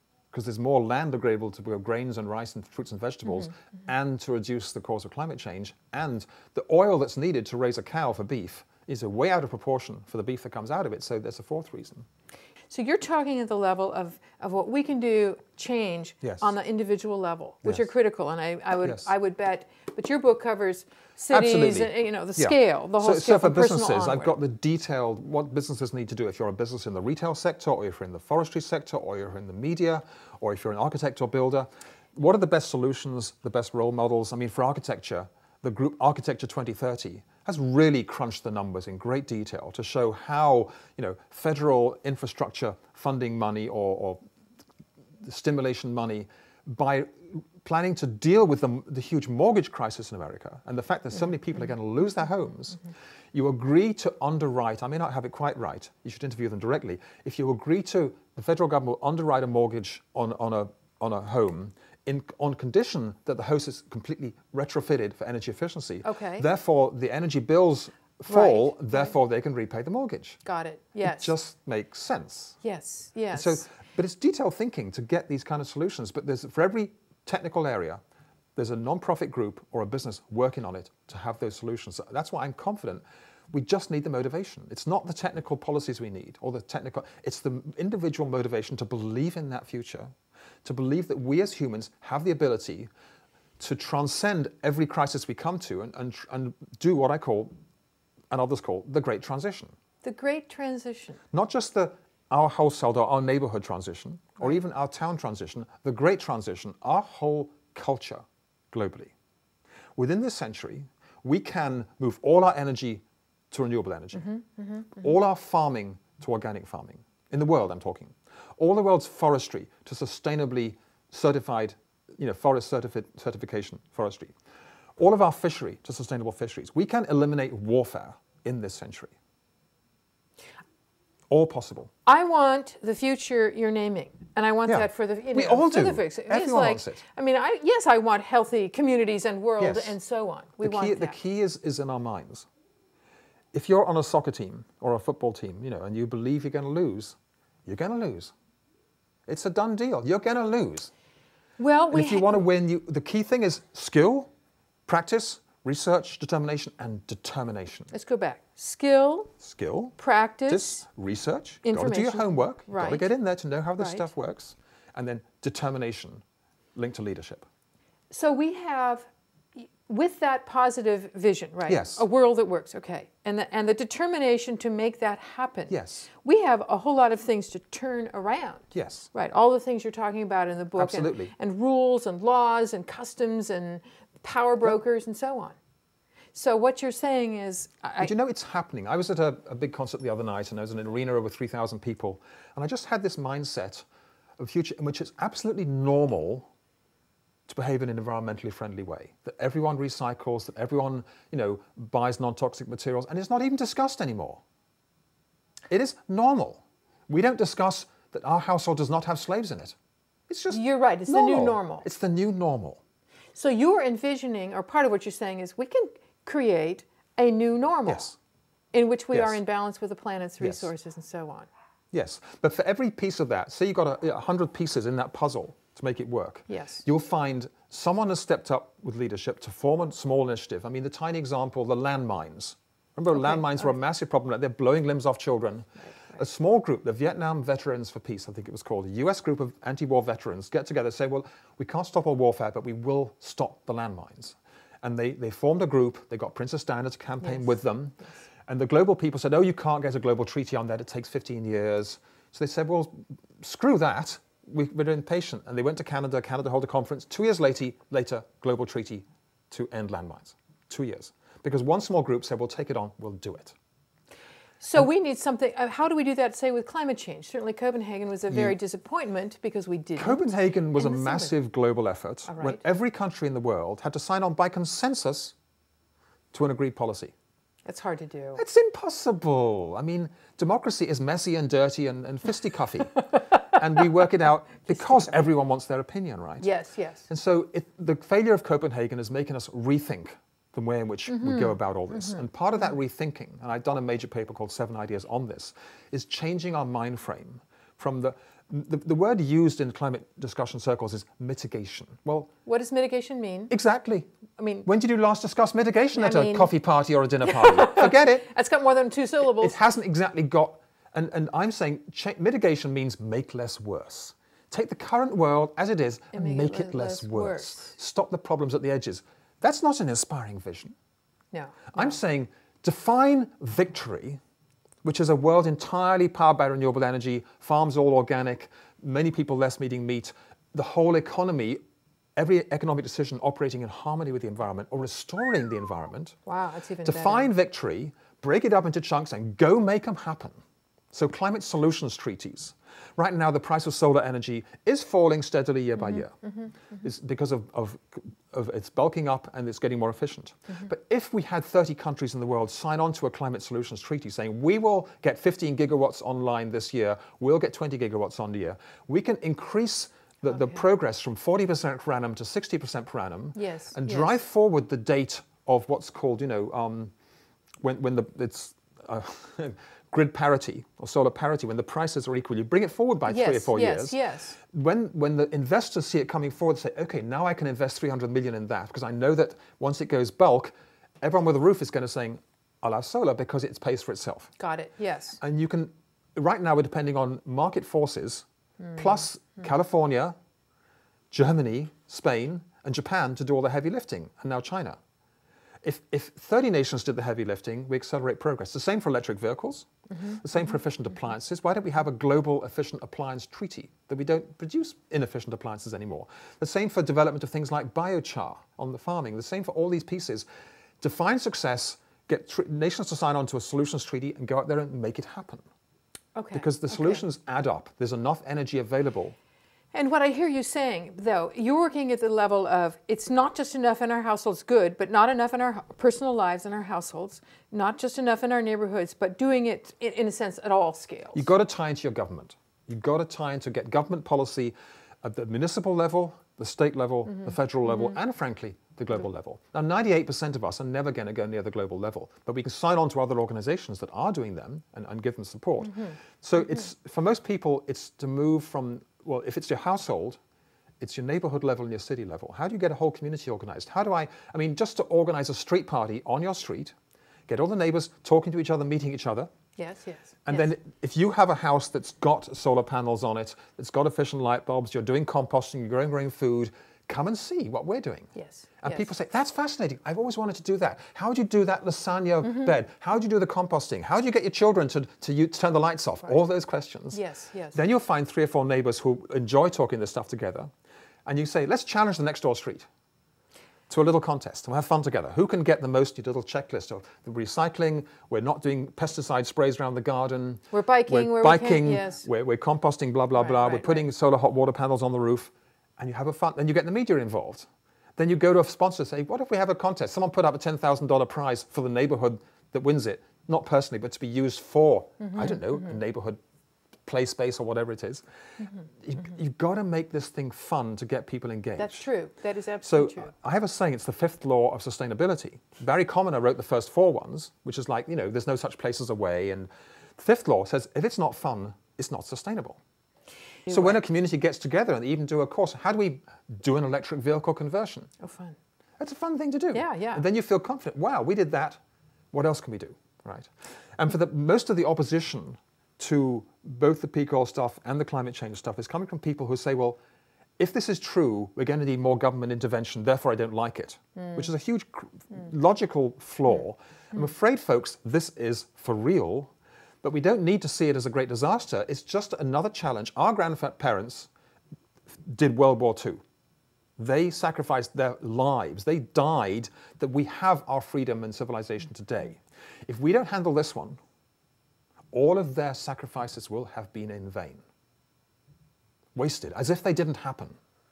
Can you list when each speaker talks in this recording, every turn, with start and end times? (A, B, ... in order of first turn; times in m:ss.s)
0:00.3-0:12.1 A
0:12.7-0:24.4 B
0:16.2-0:16.5 A
0:18.8-0:19.1 A
0:21.3-0:44.2 A
0:45.2-1:10.4 A
1:06.0-1:06.5 B
1:08.3-1:09.1 B
1:10.4-1:11.3 B
1:11.0-1:12.6 A
1:12.6-1:13.6 B
1:13.3-1:18.0 A
1:18.6-1:30.1 A
1:30.6-1:32.9 A
1:33.6-1:37.5 A
1:38.3-1:39.8 A
1:40.0-1:41.2 B
1:41.3-1:49.1 A
1:50.0-1:54.4 A
1:54.2-1:55.1 B
1:54.9-2:04.3 A
2:05.0-2:09.2 A
2:11.3-2:11.9 A
2:12.1-2:21.2 B
2:14.7-2:17.0 A
2:19.6-2:20.0 A
2:20.6-2:22.5 A
2:23.5-2:28.3 A
2:29.3-2:30.9 A
2:31.6-2:32.4 B
2:31.9-2:34.3 A
2:34.9-2:37.9 A
2:37.9-2:39.3 B
2:39.4-2:40.0 A
2:40.0-2:40.8 B
2:40.5-2:46.2 A
2:41.6-2:43.1 B
2:43.8-2:44.1 B
2:46.8-2:47.5 A
2:48.1-3:05.6 B
2:51.7-2:52.0 A
2:55.7-2:56.1 A
2:58.7-2:59.1 A
3:00.8-3:01.3 A
3:06.3-3:08.1 B
3:08.0-3:13.8 A
3:14.4-3:16.5 A
3:17.5-3:24.4 A
3:25.7-3:29.8 A
3:30.3-3:32.8 A
3:30.5-3:31.9 B
3:33.4-3:38.1 B
3:37.8-3:38.2 A
3:38.7-3:41.5 B
3:39.1-3:39.4 A
3:40.4-3:40.7 A
3:41.9-4:23.6 A
3:46.5-3:46.8 B
3:53.1-3:53.7 B
3:55.8-3:56.2 B
4:07.2-4:07.5 B
4:24.6-4:31.3 B
4:28.3-4:28.6 A
4:30.0-4:35.4 A
4:32.3-4:32.6 B
4:36.3-4:37.1 A
4:37.6-4:38.4 B
4:38.4-4:46.5 A
4:46.4-4:47.1 B
4:47.1-5:02.3 A
4:51.1-4:52.2 B
5:02.5-5:03.5 B
5:03.5-5:04.1 A
5:04.4-5:04.7 B
5:04.6-5:08.3 A
5:06.0-5:06.5 B
5:07.2-5:09.6 B
5:09.4-5:20.8 A
5:16.1-5:17.7 B
5:21.3-5:22.0 B
5:21.7-5:24.2 A
5:24.8-5:31.6 A
5:32.2-5:36.2 A
5:36.3-5:37.3 B
5:36.8-5:40.4 A
5:40.9-5:46.1 A
5:45.8-5:46.8 B
5:46.8-6:06.9 A
6:00.3-6:00.6 B
6:03.4-6:04.1 B
6:07.6-6:24.3 A
6:13.1-6:14.4 B
6:24.4-6:25.2 B
6:25.2-6:28.2 A
6:28.6-6:29.0 B
6:28.8-6:30.2 A
6:31.1-6:34.8 A
6:35.6-6:39.7 A
6:39.9-6:40.2 B
6:40.2-6:50.2 A
6:50.8-6:55.4 A
6:56.2-6:57.0 B
6:56.3-6:59.2 A
6:59.7-7:11.3 B
7:11.1-7:30.2 A
7:17.3-7:18.0 B
7:30.8-7:36.7 A
7:37.3-7:39.3 A
7:39.6-7:40.5 B
7:40.3-7:48.1 A
7:48.2-7:48.9 B
7:48.6-7:57.0 A
7:52.2-7:52.5 B
7:56.9-7:57.6 B
7:57.5-8:00.5 A
8:01.1-8:02.7 A
8:03.7-8:26.2 A
8:10.5-8:12.0 B
8:13.2-8:13.9 B
8:25.0-8:25.6 B
8:26.9-8:28.0 A
8:28.8-8:31.9 A
8:31.6-8:33.1 B
8:32.6-8:42.6 A
8:43.5-8:43.8 B
8:43.5-8:47.9 A
8:48.0-8:48.4 B
8:48.8-8:51.6 A
8:49.5-8:50.0 B
8:52.1-8:59.8 A
9:00.4-9:09.3 A
9:04.0-9:04.3 B
9:09.8-9:14.1 A
9:15.0-9:16.0 A
9:16.8-9:23.8 A
9:24.9-9:27.4 A
9:29.0-9:30.4 A